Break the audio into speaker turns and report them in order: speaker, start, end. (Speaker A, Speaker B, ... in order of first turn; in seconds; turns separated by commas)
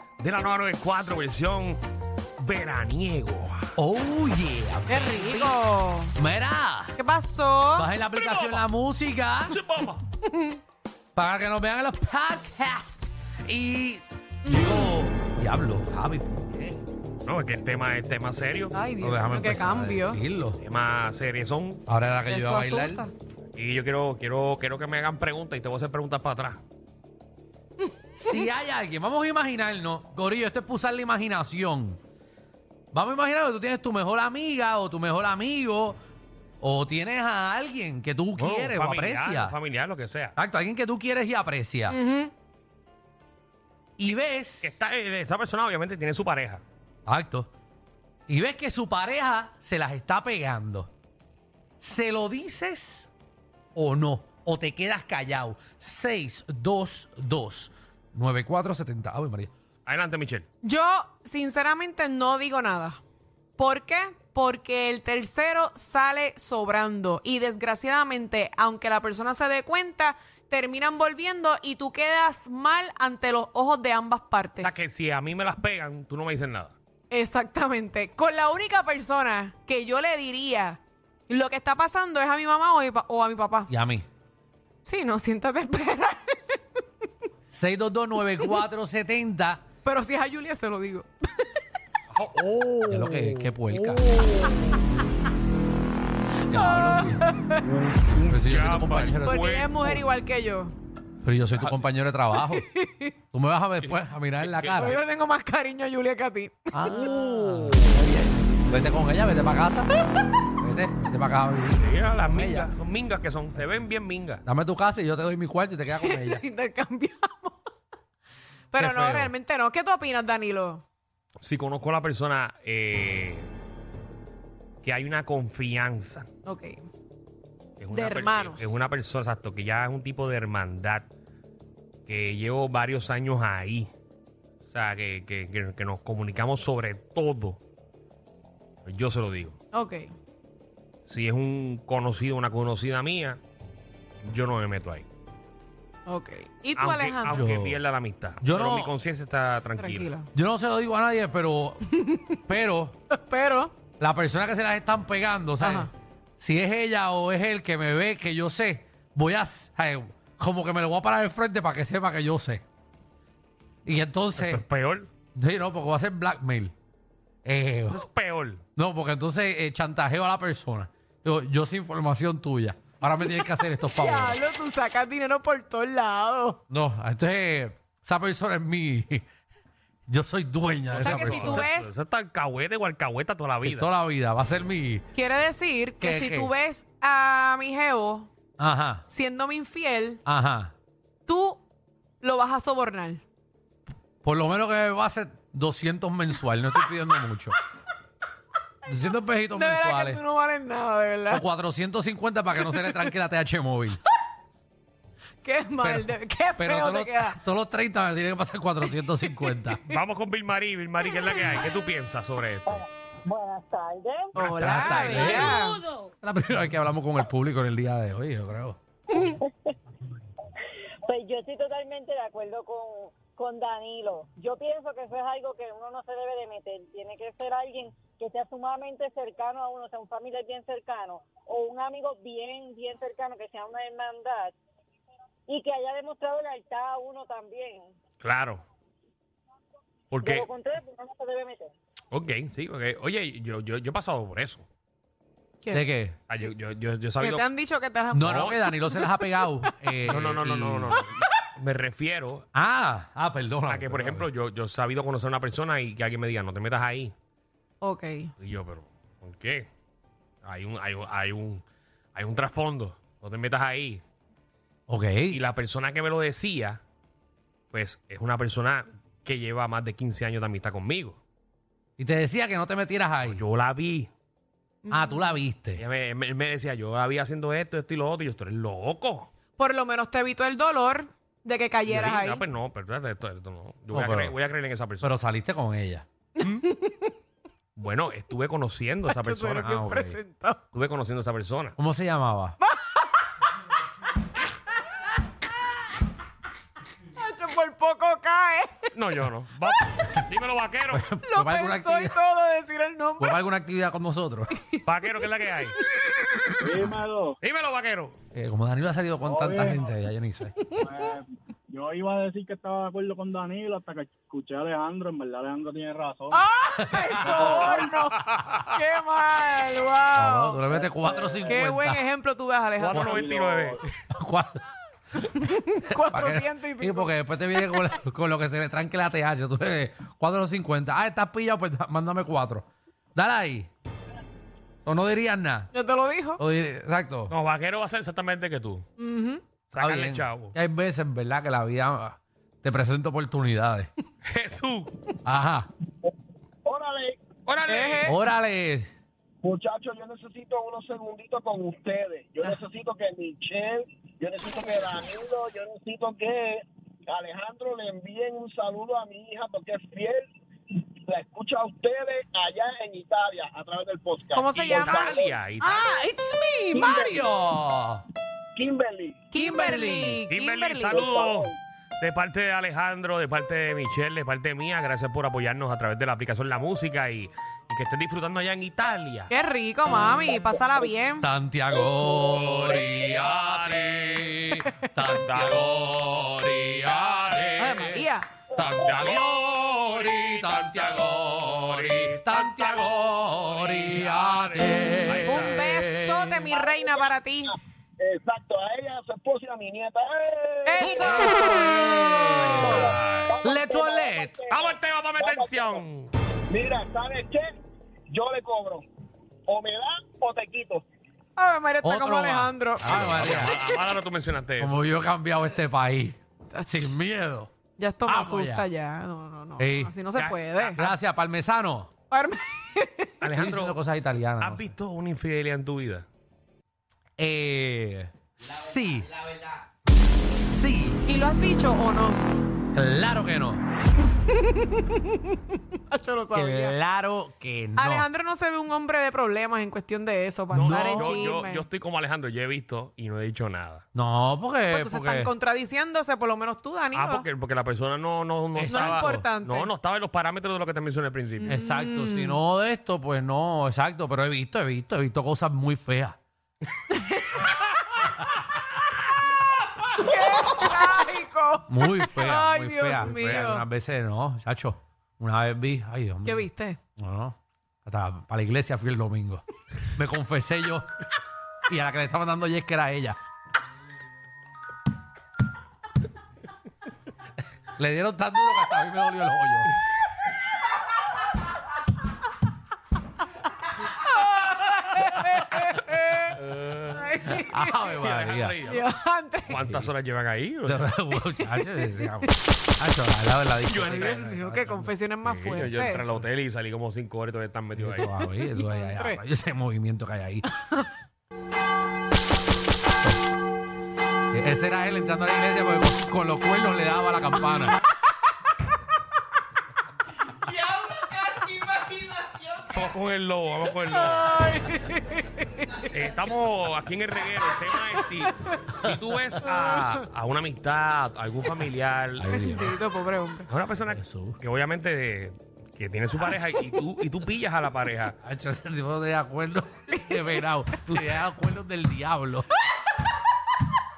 Speaker A: 0.2-1.8, Speaker A: 2.4-3.6, Speaker B: 3.8-5.6, Speaker C: 4.9-6.2, Speaker B: 6.2-7.0, Speaker C: 7.0-7.9, Speaker B: 7.8-9.6, Speaker A: 8.1-8.6, Speaker A: 9.5-10.0, Speaker C: 10.3-10.6, Speaker B: 11.2-16.8, Speaker C: 14.4-14.9, Speaker A: 17.2-18.7, Speaker C: 18.7-20.2, Speaker B: 19.0-20.6, Speaker A: 20.6-21.8, Speaker B: 21.9-23.0, Speaker C: 22.3-23.1, Speaker A: 23.6-26.6, Speaker B: 28.1-32.0, Speaker B: 32.9-36.0, Speaker B: 36.6-39.6, Speaker A: 38.4-40.4, Speaker B: 40.4-42.0, Speaker C: 41.9-42.3, Speaker B: 44.0-44.7, Speaker A: 44.6-46.6, Speaker B: 47.1-47.5, Speaker B: 48.3-50.9, Speaker B: 51.8-53.1, Speaker B: 53.8-59.5, Speaker A: 59.9-60.5, Speaker C: 60.6-63.0, Speaker C: 63.6-74.8, Speaker A: 74.6-76.8, Speaker C: 77.1-83.7, Speaker B: 83.7-84.1, Speaker C: 84.8-86.6, Speaker B: 87.5-89.6, Speaker C: 89.8-91.6, Speaker A: 92.1-93.5, Speaker B: 92.9-94.1, Speaker C: 96.4-97.8, Speaker B: 96.5-99.5, Speaker A: 98.1-100.0, Speaker C: 99.2-100.7, Speaker B: 101.2-102.7, Speaker C: 102.4-103.1, Speaker B: 103.3-105.0, Speaker A: 103.8-105.0, Speaker C: 104.8-107.2, Speaker B: 106.7-109.9, Speaker A: 107.1-108.0, Speaker B: 110.6-112.7, Speaker A: 111.7-114.4, Speaker B: 114.4-116.4, Speaker C: 116.0-117.6, Speaker C: 118.7-120.8, Speaker B: 118.8-119.3, Speaker A: 121.4-123.5, Speaker A: 124.8-126.3, Speaker C: 126.4-126.8, Speaker A: 127.8-131.1, Speaker C: 127.9-128.8, Speaker A: 132.1-133.9, Speaker A: 134.7-137.6, Speaker A: 138.9-139.6, Speaker C: 139.7-140.1, Speaker A: 141.1-143.4, Speaker A: 144.2-145.1, Speaker C: 146.1-147.4, Speaker A: 146.8-150.1, Speaker B: 147.3-147.8, Speaker B: 148.4-148.9, Speaker C: 149.8-150.3, Speaker B: 150.3-153.0, Speaker C: 151.9-152.4, Speaker C: 153.1-153.7, Speaker B: 154.0-162.6, Speaker C: 155.6-155.9, Speaker B: 163.8-164.6, Speaker A: 164.4-165.1, Speaker B: 165.3-166.7, Speaker B: 167.4-168.0, Speaker A: 167.9-168.6, Speaker B: 168.8-174.4, Speaker C: 173.3-176.6, Speaker B: 176.7-179.3, Speaker B: 180.1-181.7, Speaker A: 180.9-183.9, Speaker C: 181.0-181.9, Speaker B: 183.6-185.1, Speaker C: 185.2-188.3, Speaker B: 186.0-186.5, Speaker B: 188.6-189.1, Speaker C: 189.1-190.2, Speaker B: 190.2-190.7, Speaker C: 191.3-191.6, Speaker C: 192.2-193.2, Speaker B: 194.2-197.6, Speaker B: 198.9-200.2, Speaker C: 199.6-201.4, Speaker B: 201.3-204.0, Speaker C: 202.6-203.1, Speaker C: 205.4-207.4, Speaker B: 205.8-209.8, Speaker C: 208.9-209.8, Speaker A: 209.9-212.8, Speaker D: 212.7-214.3, Speaker C: 214.4-215.8, Speaker B: 214.4-218.8, Speaker D: 219.2-219.5, Speaker D: 221.1-234.6, Speaker D: 235.5-237.9, Speaker A: 238.2-238.6, Speaker A: 240.1-240.5, Speaker D: 240.2-241.7, Speaker A: 242.1-244.7, Speaker B: 245.7-246.2, Speaker A: 246.3-247.5, Speaker C: 247.2-249.7, Speaker B: 248.1-251.0, Speaker A: 248.3-248.5, Speaker A: 250.1-252.5, Speaker B: 252.5-254.3, Speaker A: 253.7-257.1, Speaker C: 257.8-258.3, Speaker A: 258.4-259.7, Speaker A: 260.4-261.6, Speaker A: 262.1-264.0, Speaker B: 264.9-265.4, Speaker A: 265.3-266.8, Speaker A: 267.7-271.2, Speaker B: 272.0-273.4, Speaker A: 273.2-274.1, Speaker C: 274.9-275.4, Speaker B: 274.9-275.8, Speaker A: 275.8-279.3, Speaker C: 279.6-282.4, Speaker A: 281.9-285.1, Speaker B: 283.9-284.4, Speaker B: 285.0-286.1, Speaker C: 286.4-287.1, Speaker A: 287.8-289.7, Speaker C: 289.1-290.6, Speaker B: 289.5-290.2, Speaker A: 290.7-291.8, Speaker B: 291.8-292.6, Speaker C: 292.6-293.0, Speaker C: 297.1-298.9, Speaker A: 298.9-301.1, Speaker B: 300.9-302.2, Speaker C: 301.2-303.4, Speaker B: 303.2-304.6, Speaker C: 304.5-304.8, Speaker A: 304.9-305.8, Speaker E: 306.6-307.4, Speaker A: 307.4-308.2, Speaker B: 308.3-310.5, Speaker E: 309.3-309.8, Speaker E: 310.8-316.4, Speaker C: 316.3-320.7, Speaker B: 316.9-317.5, Speaker A: 317.4-318.6, Speaker B: 320.1-322.0, Speaker E: 321.1-321.4, Speaker C: 321.5-323.3, Speaker A: 322.8-323.9, Speaker B: 322.9-323.3, Speaker E: 323.2-323.7, Speaker B: 324.0-324.6, Speaker B: 325.3-333.7, Speaker C: 325.4-327.8, Speaker B: 334.9-335.7, Speaker C: 335.7-336.4, Speaker B: 336.4-337.3, Speaker A: 337.3-338.9, Speaker C: 339.0-339.4, Speaker A: 339.7-340.5, Speaker B: 339.8-343.9, Speaker A: 344.3-344.9, Speaker B: 345.2-345.7, Speaker F: 346.6-347.2, Speaker A: 347.5-348.1, Speaker C: 347.7-348.2, Speaker B: 348.0-348.9, Speaker F: 349.4-360.3, Speaker F: 361.1-365.4, Speaker C: 364.3-365.1, Speaker A: 364.6-365.9, Speaker B: 365.6-368.0, Speaker F: 366.7-367.3, Speaker F: 368.6-369.2, Speaker C: 369.3-371.1, Speaker B: 369.3-370.2, Speaker A: 370.3-379.3, Speaker F: 370.9-371.6, Speaker C: 379.3-381.3, Speaker B: 381.2-388.0, Speaker A: 382.1-384.4, Speaker A: 385.0-387.8, Speaker C: 387.6-388.3, Speaker A: 388.6-395.6, Speaker B: 388.8-396.4, Speaker C: 395.2-397.6, Speaker F: 396.5-397.2, Speaker F: 398.0-401.6, Speaker C: 400.7-402.9, Speaker A: 400.8-401.6, Speaker B: 401.5-404.4, Speaker A: 402.4-403.4, Speaker F: 402.4-405.8, Speaker A: 404.5-406.1, Speaker F: 406.5-407.5, Speaker F: 408.1-408.8, Speaker F: 409.5-410.8, Speaker C: 411.4-413.0, Speaker B: 411.8-413.6, Speaker A: 412.8-414.8, Speaker B: 414.6-417.5, Speaker C: 416.5-416.9, Speaker C: 417.8-420.8, Speaker B: 418.1-418.7, Speaker B: 419.6-419.9, Speaker A: 420.1-421.0, Speaker B: 420.6-421.9, Speaker C: 422.1-423.2, Speaker A: 423.2-423.8, Speaker B: 423.3-424.7, Speaker A: 424.4-426.1, Speaker B: 427.2-429.2, Speaker B: 430.3-431.0, Speaker C: 431.1-432.3, Speaker B: 432.7-433.6, Speaker C: 434.2-436.8, Speaker B: 436.3-438.1, Speaker C: 437.8-441.6, Speaker B: 440.5-441.3, Speaker A: 440.5-443.8, Speaker B: 443.9-445.3, Speaker C: 444.7-447.2, Speaker A: 446.9-451.5, Speaker B: 448.6-449.3, Speaker C: 448.7-449.7, Speaker C: 451.4-452.4, Speaker B: 451.5-456.2, Speaker C: 457.0-457.5, Speaker C: 459.9-463.6, Speaker B: 461.7-469.4, Speaker A: 463.0-463.4, Speaker C: 466.2-466.8, Speaker B: 469.9-470.9, Speaker B: 471.7-473.2, Speaker B: 477.8-479.7, Speaker C: 483.9-486.3, Speaker A: 486.4-487.2, Speaker C: 487.0-487.8, Speaker B: 487.2-488.6, Speaker A: 487.9-488.9, Speaker C: 488.7-489.6, Speaker A: 489.5-490.9, Speaker B: 489.6-489.9, Speaker B: 490.6-494.9, Speaker C: 491.2-492.3, Speaker A: 493.7-494.1, Speaker C: 493.9-496.0, Speaker A: 495.2-498.1, Speaker B: 497.8-500.5, Speaker C: 498.5-499.2, Speaker C: 500.5-500.9, Speaker B: 504.3-507.8, Speaker A: 512.7-514.5, Speaker C: 513.9-515.8, Speaker A: 515.9-522.3, Speaker C: 519.5-519.8, Speaker B: 522.2-522.8, Speaker C: 522.3-523.5, Speaker A: 523.5-528.2, Speaker B: 523.9-524.4, Speaker B: 528.2-532.5